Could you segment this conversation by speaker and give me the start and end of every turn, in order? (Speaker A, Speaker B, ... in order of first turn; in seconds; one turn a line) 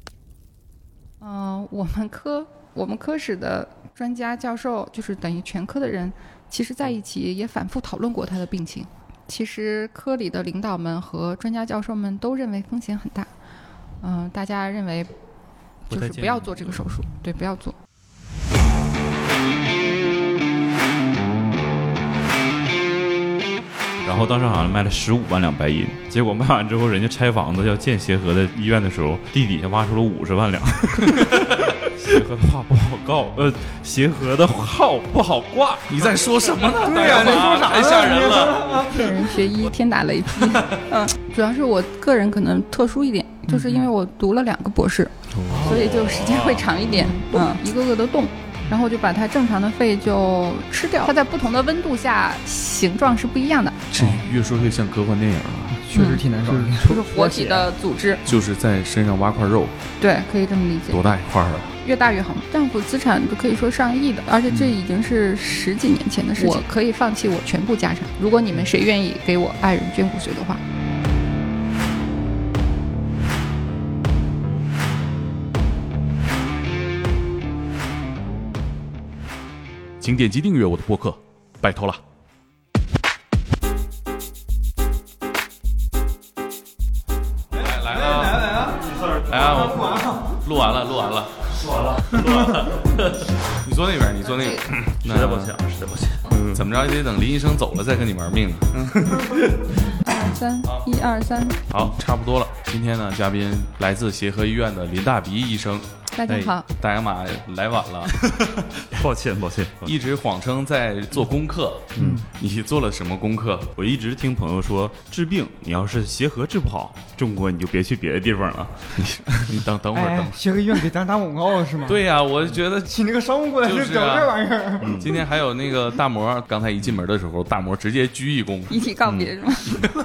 Speaker A: 1.2-13.3
Speaker A: 14.0-15.1
Speaker A: 15.9-17.8
Speaker B: 16.0-16.6
Speaker B: 24.1-35.9
Speaker C: 31.1-31.6
Speaker C: 35.9-38.9
Speaker D: 36.8-39.2
Speaker A: 38.9-53.9
Speaker D: 43.5-43.9
Speaker C: 45.4-45.7
Speaker D: 45.5-45.9
Speaker B: 45.5-46.9
Speaker D: 46.9-47.5
Speaker C: 53.9-55.8
Speaker D: 55.7-57.7
Speaker A: 55.9-58.2
Speaker C: 58.3-59.8
Speaker A: 60.0-61.0
Speaker C: 60.9-61.7
Speaker A: 61.8-70.6
Speaker D: 64.5-64.8
Speaker C: 80.0-82.0
Speaker C: 87.5-92.6
Speaker D: 87.5-90.3
Speaker B: 91.9-93.2
Speaker C: 93.5-95.6
Speaker B: 95.0-96.6
Speaker C: 96.5-99.4
Speaker B: 99.1-99.4
Speaker A: 100.0-101.6
Speaker C: 101.7-105.9
Speaker A: 106.1-106.7
Speaker B: 106.3-106.5
Speaker C: 106.7-108.2
Speaker B: 108.1-110.0
Speaker C: 109.8-113.7
Speaker B: 112.0-112.2
Speaker D: 112.0-112.3
Speaker B: 113.8-118.9
Speaker C: 119.0-120.4
Speaker D: 119.9-122.1
Speaker C: 121.8-123.0
Speaker D: 122.9-125.2
Speaker C: 123.6-124.4
Speaker B: 124.8-125.2
Speaker C: 124.9-128.8
Speaker A: 128.7-129.9
Speaker B: 129.1-129.3